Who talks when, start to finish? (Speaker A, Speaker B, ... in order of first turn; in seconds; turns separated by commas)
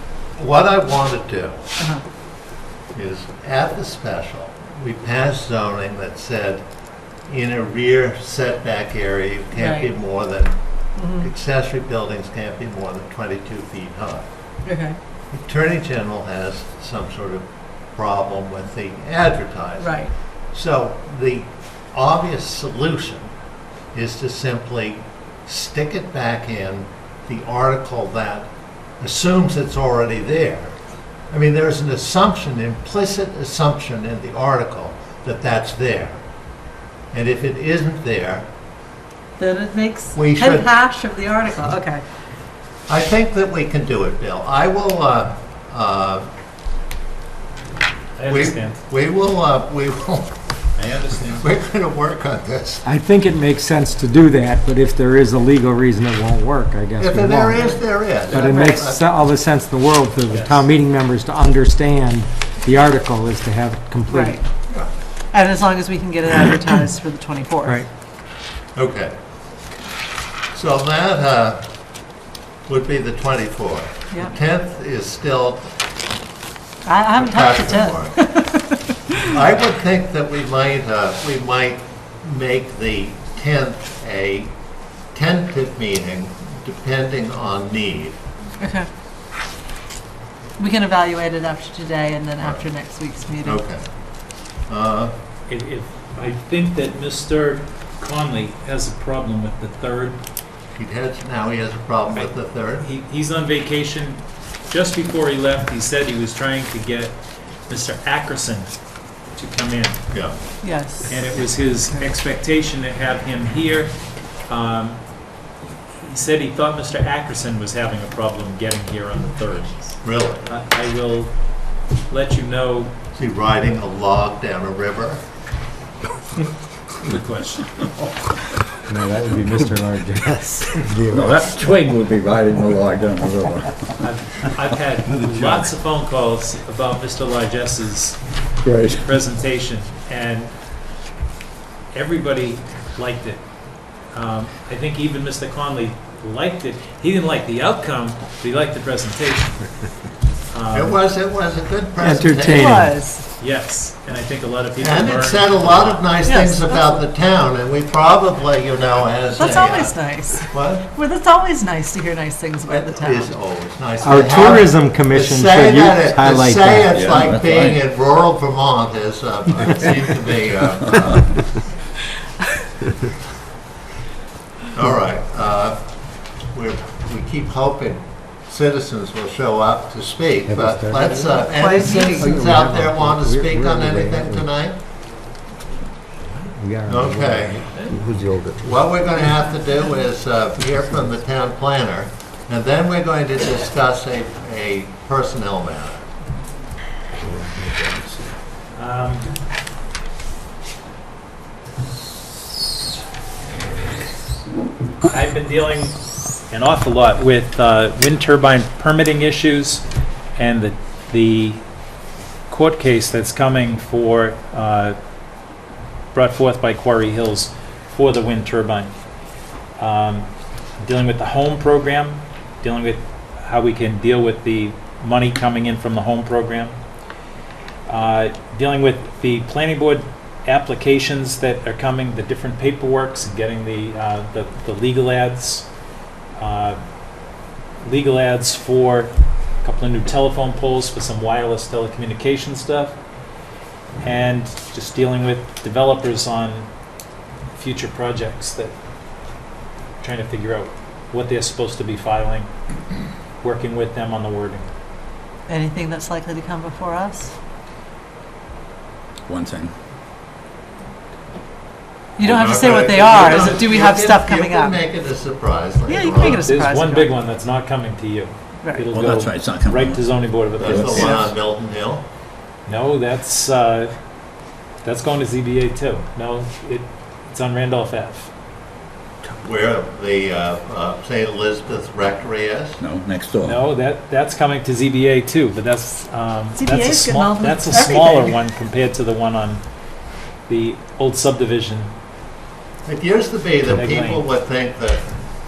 Speaker A: 0.4-1.6, Speaker B: 1.8-2.0, Speaker A: 2.9-6.6, Speaker A: 7.3-10.6, Speaker B: 9.5-9.9, Speaker B: 10.9-11.3, Speaker A: 11.2-14.2, Speaker B: 14.6-15.0, Speaker A: 15.3-19.9, Speaker B: 19.8-20.1, Speaker A: 20.5-23.3, Speaker A: 23.9-30.7, Speaker A: 31.3-36.2, Speaker A: 37.1-38.5, Speaker B: 39.4-42.0, Speaker A: 40.1-40.7, Speaker A: 42.9-46.3, Speaker C: 48.2-48.8, Speaker A: 48.3-50.4, Speaker C: 50.8-51.5, Speaker A: 51.4-52.8, Speaker D: 52.8-64.4, Speaker A: 57.0-59.0, Speaker B: 58.3-58.8, Speaker C: 60.3-60.6, Speaker B: 64.1-64.4, Speaker B: 65.3-67.8, Speaker A: 68.8-69.1, Speaker A: 70.5-71.6, Speaker A: 72.7-75.7, Speaker B: 76.8-79.1, Speaker A: 77.2-78.2, Speaker A: 79.3-84.5, Speaker A: 85.1-88.2, Speaker B: 88.6-88.9, Speaker B: 90.6-93.6, Speaker A: 93.4-93.8, Speaker A: 94.7-95.1, Speaker C: 95.5-100.2, Speaker A: 100.8-102.8, Speaker C: 102.1-108.8, Speaker C: 109.3-110.0, Speaker B: 110.6-111.3, Speaker C: 111.1-115.1, Speaker C: 116.0-121.4, Speaker A: 120.0-120.5, Speaker C: 122.1-122.9, Speaker A: 123.1-125.2, Speaker C: 127.0-127.9, Speaker D: 128.9-131.2, Speaker E: 131.1-133.9, Speaker C: 134.0-138.3, Speaker E: 135.2-135.5, Speaker E: 138.6-139.1, Speaker C: 138.9-140.5, Speaker C: 141.9-143.4, Speaker C: 144.1-149.7, Speaker C: 150.5-151.0, Speaker A: 150.7-152.8, Speaker D: 152.0-152.9, Speaker B: 152.4-153.2, Speaker C: 153.4-156.1, Speaker A: 154.8-160.8, Speaker B: 156.3-157.0, Speaker B: 159.4-163.3, Speaker A: 162.7-171.3, Speaker D: 164.0-166.9, Speaker E: 166.9-167.8, Speaker E: 170.9-171.2, Speaker A: 174.7-175.8, Speaker A: 176.5-184.8, Speaker D: 180.5-181.4, Speaker B: 181.5-182.4, Speaker D: 181.9-184.5, Speaker D: 186.4-187.8, Speaker A: 186.9-187.7, Speaker F: 187.8-188.8, Speaker A: 188.6-196.1, Speaker F: 197.2-198.3, Speaker C: 198.7-199.3, Speaker C: 205.0-209.8, Speaker C: 210.3-211.6, Speaker C: 212.5-214.9, Speaker C: 216.1-218.9, Speaker C: 219.8-220.3, Speaker C: 220.8-226.7, Speaker C: 227.9-235.7, Speaker C: 236.4-236.8, Speaker C: 237.8-243.0, Speaker C: 244.0-246.7, Speaker C: 247.5-248.7, Speaker C: 250.0-252.5, Speaker C: 253.4-254.7, Speaker B: 255.5-257.3, Speaker E: 259.3-259.7, Speaker B: 262.2-264.8, Speaker A: 262.2-266.4, Speaker B: 265.9-267.1, Speaker C: 266.2-271.3, Speaker E: 268.9-271.2, Speaker A: 270.6-272.0, Speaker C: 272.7-273.9, Speaker C: 274.8-278.3, Speaker A: 279.4-282.8, Speaker E: 282.8-283.6, Speaker C: 283.4-289.6, Speaker B: 286.6-288.3, Speaker C: 290.5-291.9, Speaker A: 292.9-295.0, Speaker C: 293.7-294.2